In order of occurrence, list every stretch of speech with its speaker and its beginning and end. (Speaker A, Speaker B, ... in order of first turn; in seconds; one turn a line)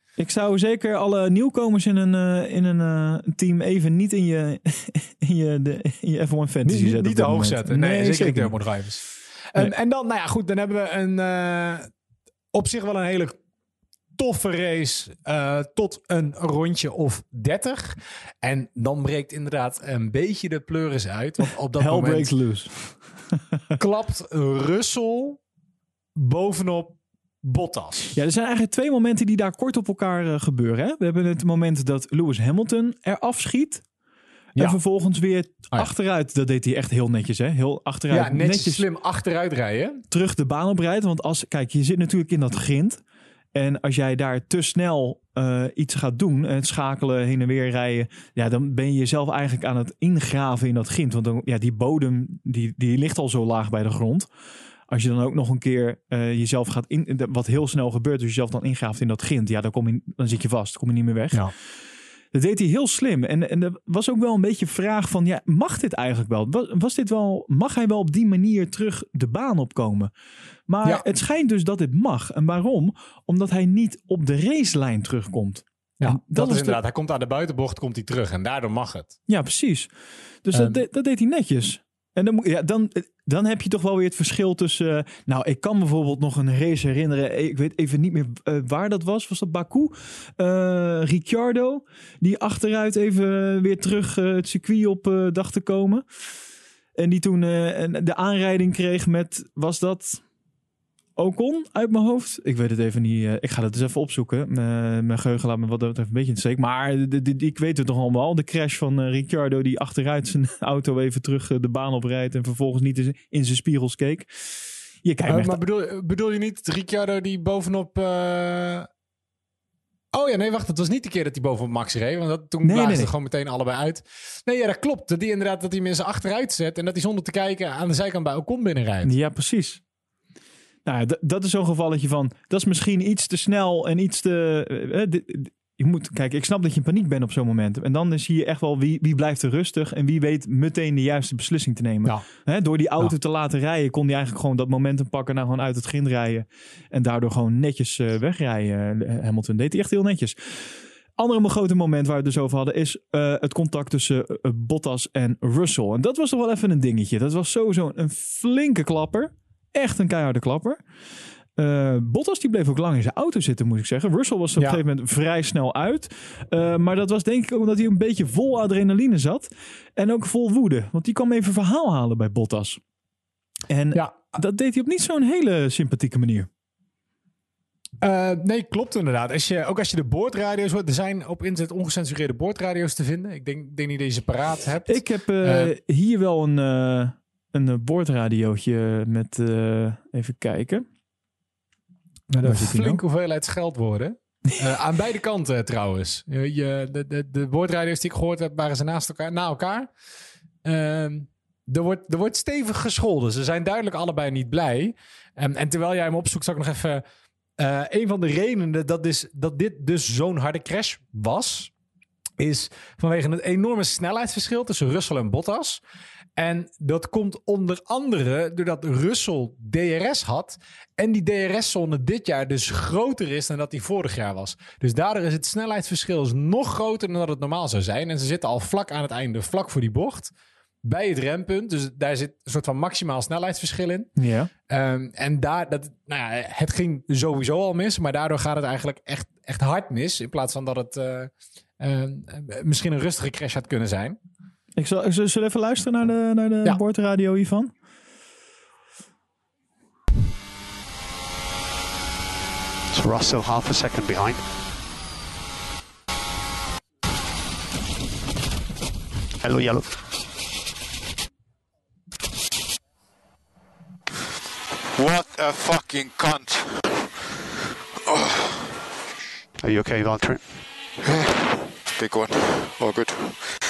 Speaker A: 0.2-8.5
Speaker B: 6.6-11.9
Speaker B: 12.5-13.4
Speaker B: 14.2-22.3
Speaker A: 21.8-23.1
Speaker B: 23.8-25.4
Speaker B: 26.1-28.1
Speaker A: 28.1-33.8
Speaker A: 34.6-38.8
Speaker B: 38.1-40.0
Speaker A: 40.1-43.0
Speaker A: 43.5-54.3
Speaker A: 54.9-61.4
Speaker A: 62.3-70.1
Speaker A: 70.7-76.8
Speaker B: 76.0-79.1
Speaker A: 79.3-79.9
Speaker A: 80.4-96.0
Speaker B: 80.5-80.8
Speaker A: 97.0-100.2
Speaker A: 101.2-114.3
Speaker A: 115.0-115.6
Speaker B: 115.3-118.9
Speaker B: 120.1-129.1
Speaker A: 122.6-123.1
Speaker A: 129.0-129.8
Speaker A: 130.8-160.8
Speaker A: 161.6-172.8
Speaker A: 173.7-176.5
Speaker B: 173.9-174.3
Speaker B: 178.0-185.7
Speaker A: 184.9-190.8
Speaker A: 192.3-193.0
Speaker B: 192.4-199.9
Speaker B: 200.6-207.0
Speaker B: 207.6-211.7
Speaker B: 212.4-215.8
Speaker B: 216.3-230.3
Speaker B: 230.8-234.1
Speaker A: 234.2-234.5
Speaker B: 234.7-244.2
Speaker A: 244.8-247.7
Speaker C: 252.9-254.4
Speaker C: 259.4-260.0
Speaker D: 264.9-266.9
Speaker D: 268.1-268.7
Speaker C: 269.6-270.4
Speaker D: 271.0-271.4
Speaker D: 271.9-273.6